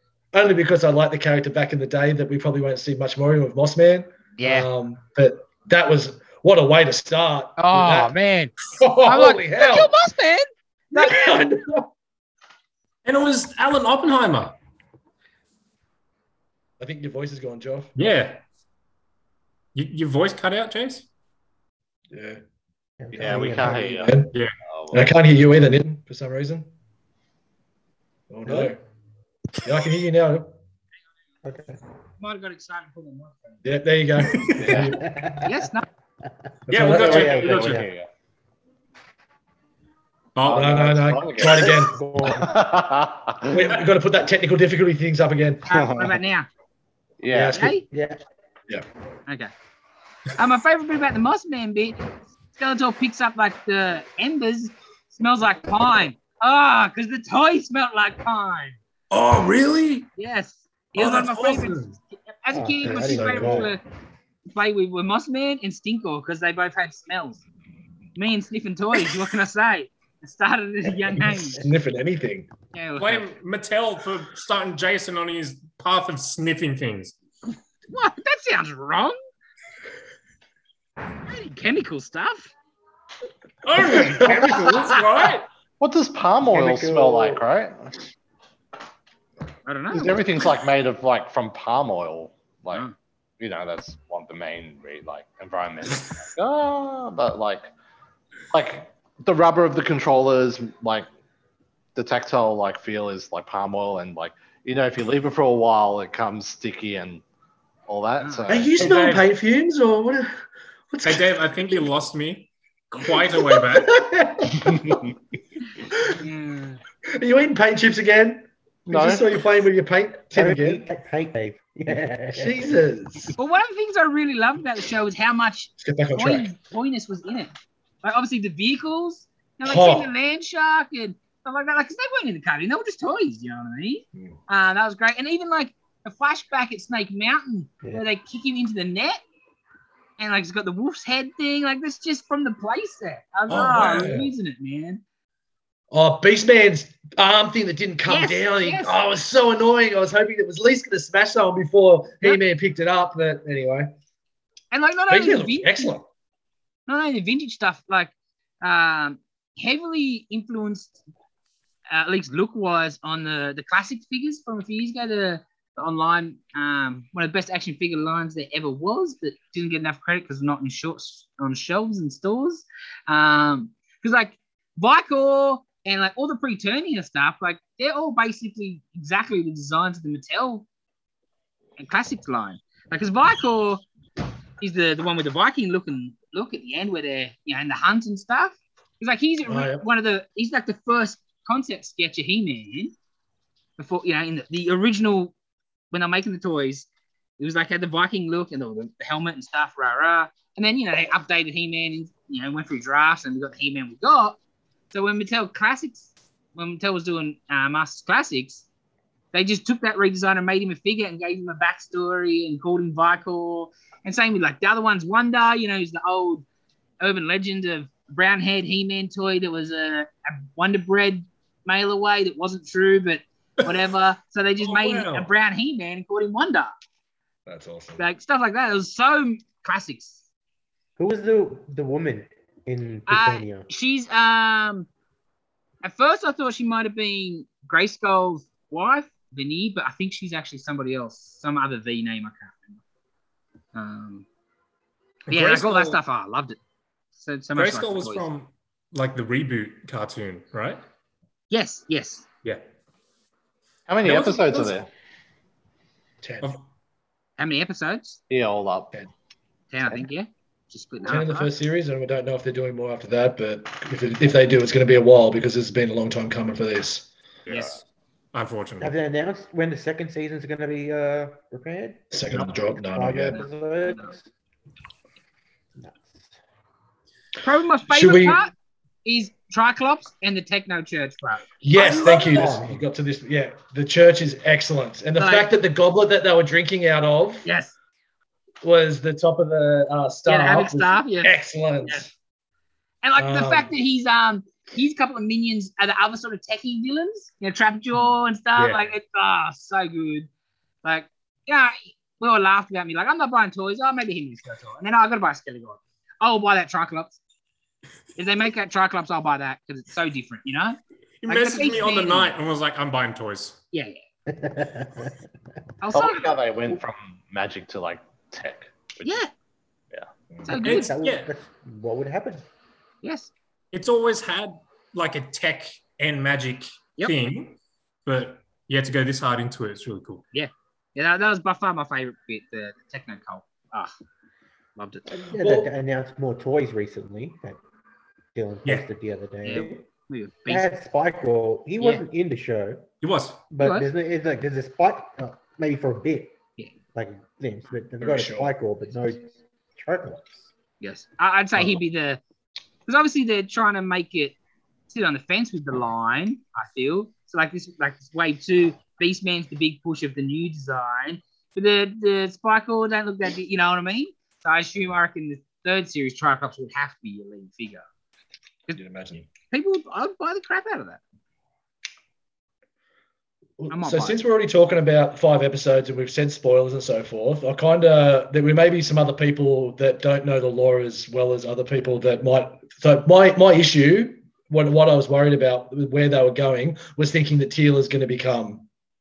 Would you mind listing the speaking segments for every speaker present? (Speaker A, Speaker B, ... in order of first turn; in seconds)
Speaker A: 0.3-8.1, 8.7-9.9, 10.9-11.9, 16.8-17.9, 22.1-22.4, 23.2-24.3, 24.9-26.7, 28.3-28.8, 29.6-30.5, 33.6-35.0, 36.7-37.4, 40.5-42.0, 43.5-45.7, 47.3-47.7, 59.1-60.0, 62.8-63.7, 71.5-72.5, 83.8-85.0, 108.5-110.4, 110.9-111.4, 113.2-115.0, 117.1-120.8, 122.3-123.3, 125.8-126.5, 129.6-130.1, 143.5-144.3, 145.9-153.9, 155.1-156.1, 189.5-189.8, 227.4-228.0, 256.2-256.5, 261.1-267.1, 272.1-273.4, 277.9-278.4, 281.6-287.4, 288.6-292.1, 293.1-293.7, 335.4-335.7, 348.0-348.5, 368.7-369.3, 373.6-388.6
Speaker B: 4.4-4.7, 7.6-11.4, 32.2-33.6, 35.4-35.8, 45.7-46.5, 47.5-47.8, 49.3-49.5, 50.4-58.8, 60.2-63.8, 64.5-67.4, 68.2-71.6, 72.7-73.3, 77.9-79.2, 81.2-82.5, 89.7-90.2, 108.2-108.5, 116.2-116.8, 123.4-127.5, 128.0-139.2, 140.2-145.0, 148.1-149.0, 154.7-155.9, 156.9-161.0, 161.9-180.7, 181.8-183.8, 184.6-192.9, 193.8-195.3, 195.9-196.9, 197.4-204.4, 204.9-208.6, 209.3-216.4, 217.0-226.7, 228.0-230.2, 233.1-234.9, 235.8-242.8, 243.7-244.2, 245.3-246.6, 247.2-248.3, 251.5-252.2, 257.4-258.2, 259.7-261.5, 277.4-278.5, 279.0-282.4, 285.1-285.5, 287.4-287.7, 290.2-292.0, 293.0-300.3, 300.8-307.2, 308.2-312.3, 313.7-314.0, 315.8-316.4, 319.0-319.3, 320.4-320.9, 323.0-323.3, 330.3-333.9, 334.8-335.1, 339.4-340.7, 343.6-343.9, 350.8-352.2, 352.9-354.4, 354.9-367.8, 369.5-371.0, 373.7-374.2
Speaker C: 13.0-14.6, 17.9-18.4, 19.7-21.1, 34.2-34.7, 36.7-37.9, 40.4-40.8, 59.1-60.0, 61.0-61.8, 73.0-77.2, 83.6-85.5, 108.8-109.3, 111.0-114.1, 224.6-225.3, 245.3-246.0, 247.5-250.8, 254.0-254.8, 267.4-267.8, 268.3-268.9, 298.6-298.8, 311.2-313.6, 320.6-321.3, 323.7-330.2, 343.0-343.4
Speaker D: 23.0-24.1, 28.5-28.7, 31.4-31.8, 34.8-35.6, 36.9-37.9, 41.4-42.6, 47.9-48.2, 62.5-63.7, 84.2-84.6, 86.5-87.4, 120.3-122.7, 231.0-233.7, 268.8-274.3, 275.8-276.4, 281.8-282.8, 314.3-315.1, 320.5-322.4, 335.1-337.6, 338.3-339.8, 340.5-342.9, 343.5-346.3, 346.9-350.4
Speaker E: 23.1-25.1, 34.6-35.0, 36.8-38.1, 40.5-43.6, 45.7-46.2, 47.2-47.6, 85.8-87.8, 89.9-92.9, 93.4-97.7, 98.5-101.1, 101.9-107.2, 107.9-108.9, 118.9-119.4, 253.9-254.9, 258.3-258.9, 315.9-319.2